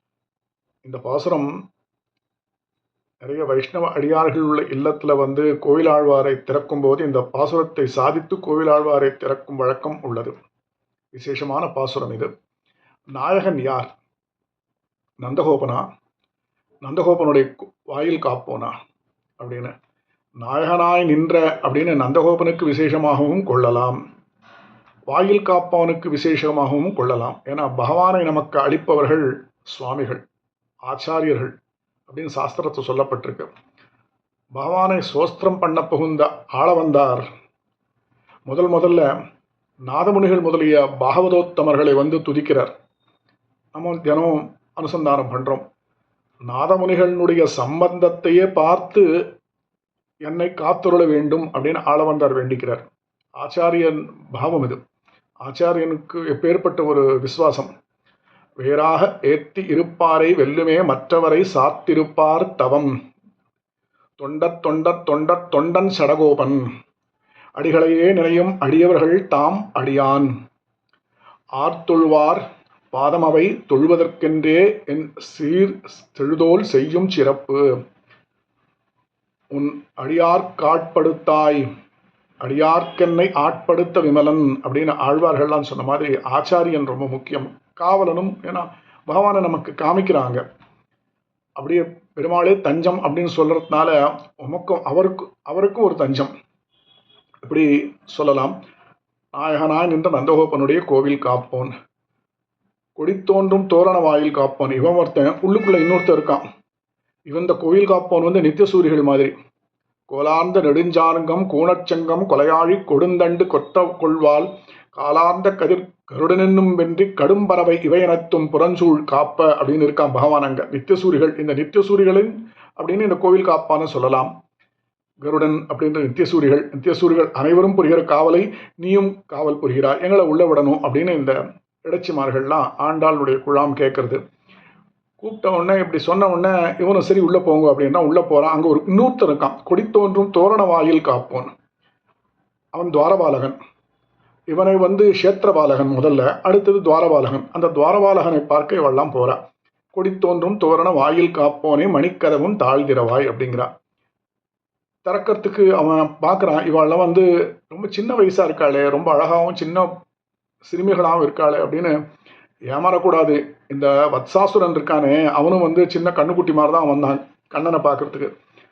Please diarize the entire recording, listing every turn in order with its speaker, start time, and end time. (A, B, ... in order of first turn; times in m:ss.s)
0:00.8-0:01.5 A
0:03.2-0:10.3 A
0:11.1-0:12.3 A
0:13.1-0:13.9 A
0:15.2-0:15.8 A
0:16.8-0:18.7 A
0:19.4-0:19.7 A
0:20.4-0:24.0 A
0:25.1-0:30.2 A
0:30.9-0:31.5 A
0:32.1-0:33.5 A
0:34.6-0:37.2 A
0:38.5-0:39.1 A
0:39.9-0:42.7 A
0:43.7-0:45.6 A
0:46.4-0:49.1 A
0:50.2-0:52.8 A
0:53.4-0:54.8 A
0:55.4-0:57.7 A
0:58.6-1:02.9 A
1:04.2-1:06.6 A
1:07.6-1:10.3 A
1:11.6-1:17.6 A
1:19.5-1:21.6 A
1:22.4-1:30.4 A
1:31.6-1:36.3 A
1:37.4-1:38.5 A
1:39.3-1:41.7 A
1:43.0-1:46.4 A
1:47.3-1:49.3 A
1:50.1-2:04.3 A
2:05.2-2:14.2 A
2:15.2-2:21.5 A
2:22.8-2:23.6 A
2:24.5-2:29.4 A
2:29.9-2:33.7 A
2:35.0-2:39.9 A
2:40.6-2:41.9 A
2:42.7-2:48.3 A